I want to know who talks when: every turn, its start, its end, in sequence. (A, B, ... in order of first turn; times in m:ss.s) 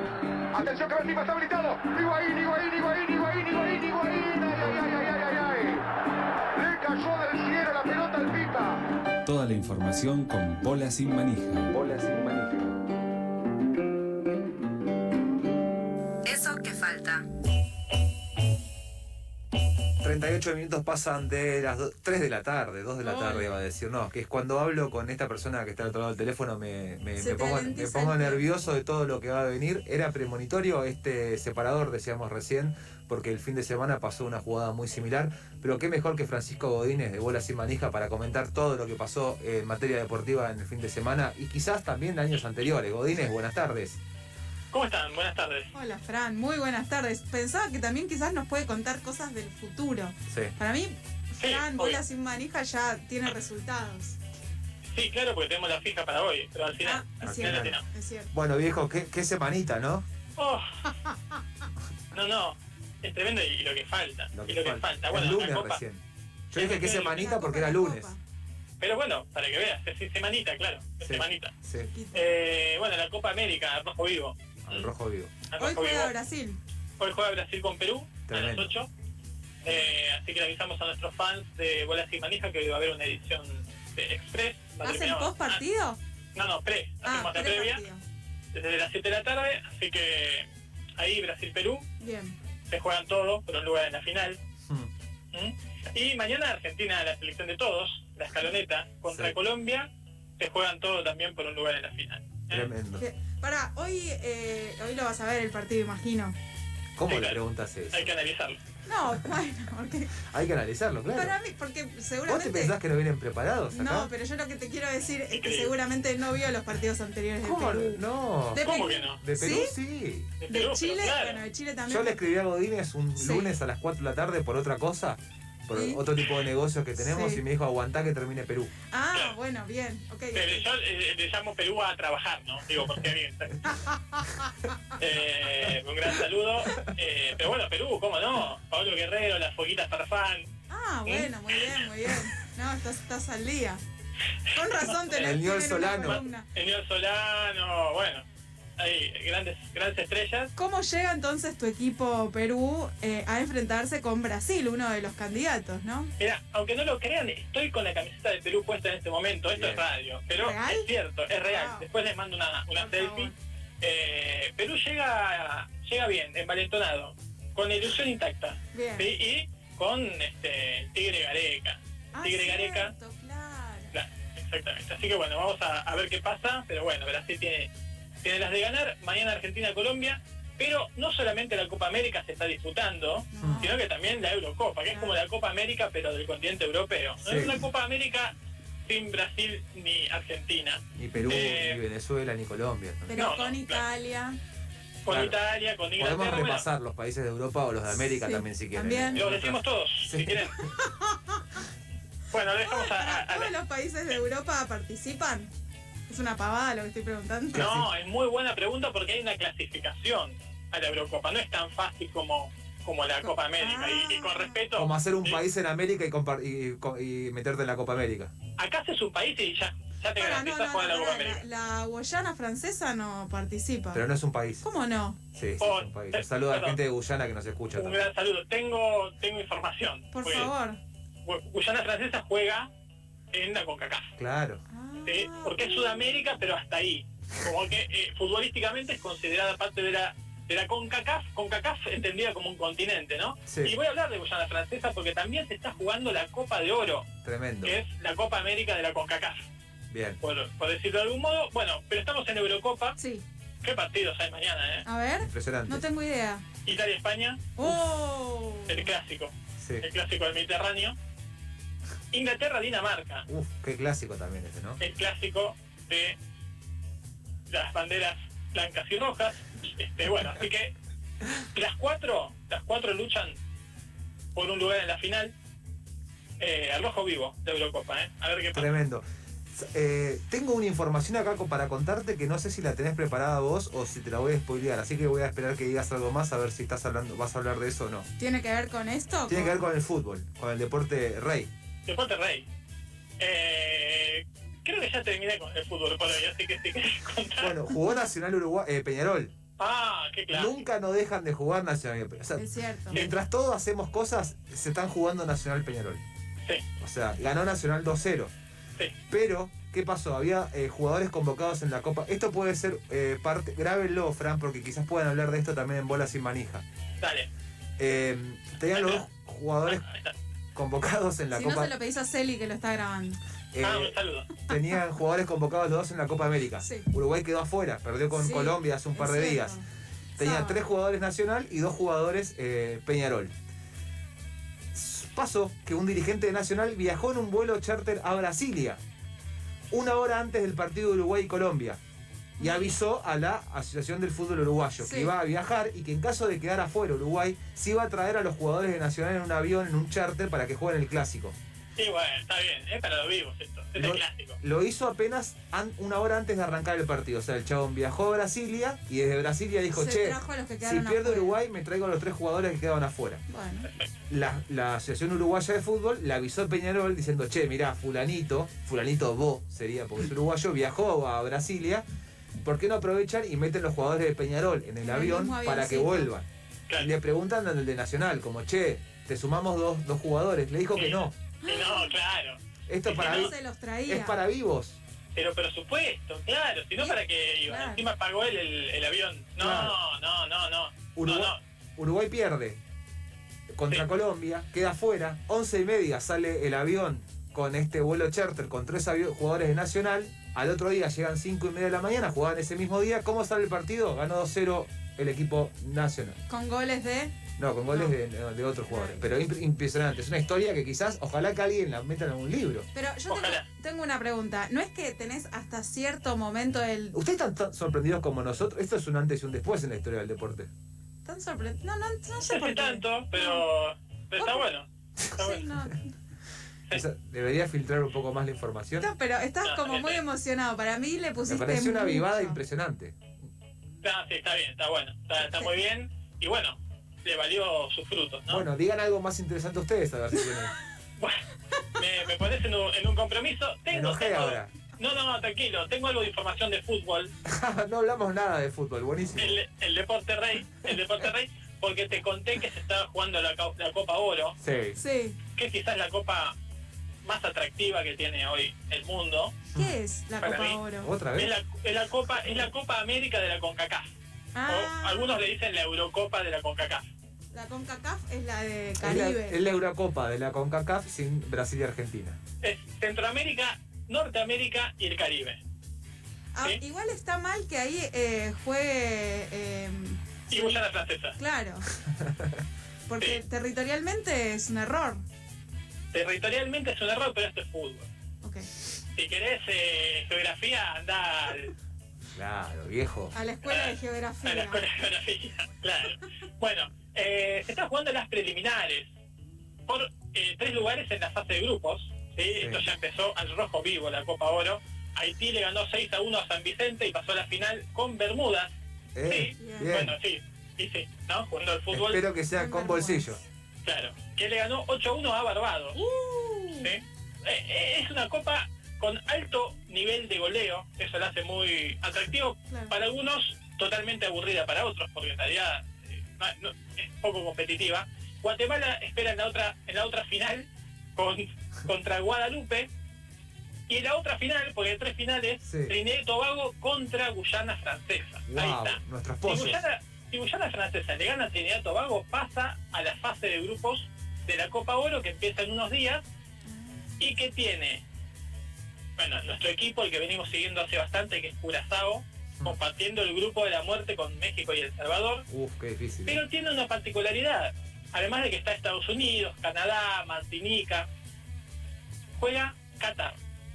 0:00.5-0:05.9 A
0:06.5-0:08.8 A
0:09.2-0:11.8 B
0:11.7-0:12.7 C
0:16.2-0:17.2 D
0:20.0-0:44.0 C
0:23.0-0:23.6 D
0:27.2-0:28.4 D
0:44.7-0:45.7 E
0:45.7-0:54.2 D
0:50.3-0:50.5 C
0:51.4-0:52.0 E
0:54.9-0:57.8 E
0:56.8-0:58.3 D
0:57.2-0:57.7 C
0:58.3-1:00.0 C
1:00.4-1:00.6 E
1:02.1-1:05.8 E
1:04.3-1:06.0 C
1:06.5-1:08.1 C
1:06.5-1:07.2 E
1:07.0-1:08.2 D
1:08.8-1:11.5 E
1:11.0-1:11.9 C
1:11.7-1:12.2 D
1:12.1-1:14.9 E
1:14.6-1:15.4 C
1:15.5-1:16.1 E
1:15.6-1:16.6 D
1:17.0-1:18.9 E
1:18.3-1:18.7 C
1:19.6-1:25.6 E
1:24.8-1:26.0 D
1:26.3-1:27.8 E
1:27.0-1:28.0 D
1:28.5-1:31.8 E
1:32.0-1:32.3 D
1:32.7-1:34.4 E
1:35.3-1:42.7 E
1:39.1-1:39.4 C
1:42.5-1:43.0 C
1:43.0-1:46.4 D
1:47.0-1:48.1 C
1:47.1-1:47.4 E
1:47.9-1:48.6 E
1:48.8-1:50.2 D
1:50.3-1:51.4 C
1:51.1-1:52.8 D
1:52.3-1:54.1 C
1:53.7-1:59.7 D
1:55.3-1:55.8 E
1:57.4-2:00.3 C
1:58.6-1:59.2 E
2:00.4-2:01.4 E
2:00.5-2:02.3 D
2:01.8-2:08.7 C
2:03.2-2:03.5 D
2:05.7-2:06.0 D
2:07.0-2:07.4 D
2:08.9-2:10.6 D
2:10.3-2:13.7 E
2:13.6-2:14.5 D
2:15.0-2:20.5 E
2:20.7-2:23.8 D
2:21.0-2:22.1 E
2:24.5-2:26.5 D
2:24.6-2:28.2 E
2:25.1-2:26.2 C
2:28.8-2:30.5 E
2:30.6-2:36.1 D
2:36.2-2:52.9 E
2:39.5-2:39.8 C
2:40.4-2:40.9 D
2:41.4-2:41.9 D
2:42.7-2:43.3 D
2:48.7-2:49.1 D
2:52.1-2:54.0 D
2:53.9-2:57.7 E
2:58.2-3:08.3 E
3:03.3-3:03.8 D
3:03.4-3:03.7 C
3:04.9-3:05.2 D
3:07.2-3:07.6 C
3:08.8-3:11.8 E
3:10.9-3:13.2 C
3:11.2-3:11.4 D
3:13.1-3:14.4 D
3:13.1-3:13.8 E
3:15.0-3:16.6 E
3:15.1-3:15.3 C
3:16.0-3:20.7 C
3:17.9-3:19.2 D
3:19.1-3:20.6 E
3:20.6-3:21.6 D
3:22.3-3:23.5 E
3:22.6-3:25.5 D
3:26.1-3:27.7 D
3:27.5-3:27.9 C
3:27.5-3:35.4 E
3:33.2-3:34.6 D
3:34.7-3:38.3 C
3:38.6-3:41.4 E
3:40.1-3:44.0 D
3:43.9-3:44.6 C
3:44.6-3:45.2 D
3:45.3-3:48.1 C
3:45.6-3:46.8 E
3:47.7-3:50.5 E
3:50.1-3:50.8 D
3:51.2-3:52.7 E
3:53.3-3:54.1 E
3:54.2-3:54.6 C
3:54.7-3:56.1 D
3:55.0-4:07.1 E
4:03.5-4:03.8 C
4:07.2-4:07.8 C
4:07.6-4:09.5 E
4:09.9-4:10.2 C
4:10.2-4:13.0 E
4:13.0-4:13.2 D
4:13.6-4:14.8 E
4:14.8-4:16.4 D
4:15.2-4:15.8 C
4:16.6-4:17.5 E
4:17.6-4:18.9 D
4:18.7-4:21.0 E
4:19.6-4:19.8 C
4:22.1-4:23.2 E
4:23.3-4:24.8 C
4:24.8-4:26.2 E
4:27.5-4:30.8 E
4:31.4-4:33.4 E
4:34.3-4:35.3 E
4:36.4-4:38.7 E
4:38.5-4:48.1 C
4:48.2-4:49.6 D
4:49.3-4:51.5 C
4:51.8-4:52.4 E
4:53.2-4:57.6 E
4:57.4-4:59.3 C
4:59.6-5:00.6 E
5:00.3-5:06.0 C
5:02.4-5:03.0 D
5:06.8-5:08.3 C
5:09.1-5:16.6 C
5:17.0-5:17.3 E
5:17.8-5:19.8 C
5:18.7-5:19.0 E
5:19.7-5:20.1 E
5:20.5-5:21.7 C
5:21.3-5:23.2 D
5:23.5-5:24.0 C
5:23.6-5:24.3 E
5:24.5-5:29.6 C
5:26.6-5:26.9 D
5:28.1-5:29.6 D
5:30.2-5:30.6 D
5:30.2-5:33.3 C
5:34.7-5:38.8 C
5:39.7-5:41.8 C
5:42.4-5:42.7 D
5:42.4-5:51.4 C
5:44.8-5:45.1 D
5:51.8-5:54.4 E
5:53.8-6:03.2 C
5:59.7-6:01.4 D
6:03.3-6:03.7 D
6:03.6-6:03.9 E
6:04.1-6:11.8 C
6:12.4-6:21.1 C
6:14.8-6:16.1 D
6:20.8-6:23.3 E
6:21.4-6:21.9 D
6:22.7-6:24.8 C
6:22.9-6:24.2 D
6:25.2-6:31.4 E
6:26.8-6:27.8 D
6:29.4-6:29.8 C
6:31.0-6:32.6 C
6:33.5-6:46.2 C
6:46.3-6:47.2 D
6:47.4-6:52.6 C
6:47.7-6:48.0 D
6:48.7-6:49.0 D
6:52.7-6:57.0 D
6:53.1-6:53.4 E
6:56.9-7:00.5 C
7:01.0-7:03.4 D
7:02.2-7:05.4 E
7:04.2-7:04.5 D
7:05.2-7:05.9 D
7:06.7-7:08.9 C
7:08.8-7:12.4 D
7:09.4-7:10.0 E
7:11.2-7:13.0 C
7:13.8-7:18.5 E
7:18.3-7:20.5 C
7:21.8-7:27.1 E
7:23.7-7:24.5 C
7:27.2-7:29.4 C
7:29.2-7:34.4 E
7:34.4-7:34.8 C
7:34.8-7:35.2 D
7:35.4-7:36.3 E
7:37.0-7:39.4 E
7:39.5-7:40.9 D
7:40.2-7:40.6 E
7:40.8-7:41.3 C
7:41.2-7:43.9 E
7:44.3-7:45.1 D
7:44.5-7:46.9 E
7:47.3-7:49.4 D
7:48.8-7:52.2 C
7:52.4-7:55.4 E
7:56.3-8:00.6 D
8:00.3-8:01.2 E
8:01.2-8:01.6 D
8:02.0-8:02.3 C
8:02.9-8:05.0 D
8:05.9-8:07.9 E
8:08.2-8:08.5 D
8:09.0-8:11.5 E
8:12.1-8:13.2 C
8:13.1-8:14.6 D
8:13.4-8:18.9 E
8:19.7-8:28.5 E
8:22.4-8:22.7 C
8:28.9-8:30.0 C
8:29.0-8:32.0 E
8:29.3-8:29.8 D
8:31.7-8:33.2 C
8:32.3-8:33.2 D
8:33.6-8:35.8 E
8:35.7-8:36.7 D
8:36.5-8:52.7 E
8:42.5-8:42.7 D
8:53.7-9:06.0 E
8:55.4-8:55.8 C
8:58.3-8:59.6 C
9:06.4-9:07.1 D
9:07.0-9:07.8 E
9:09.0-9:15.2 E
9:15.3-9:16.2 C
9:16.0-9:20.9 E
9:22.2-9:23.2 E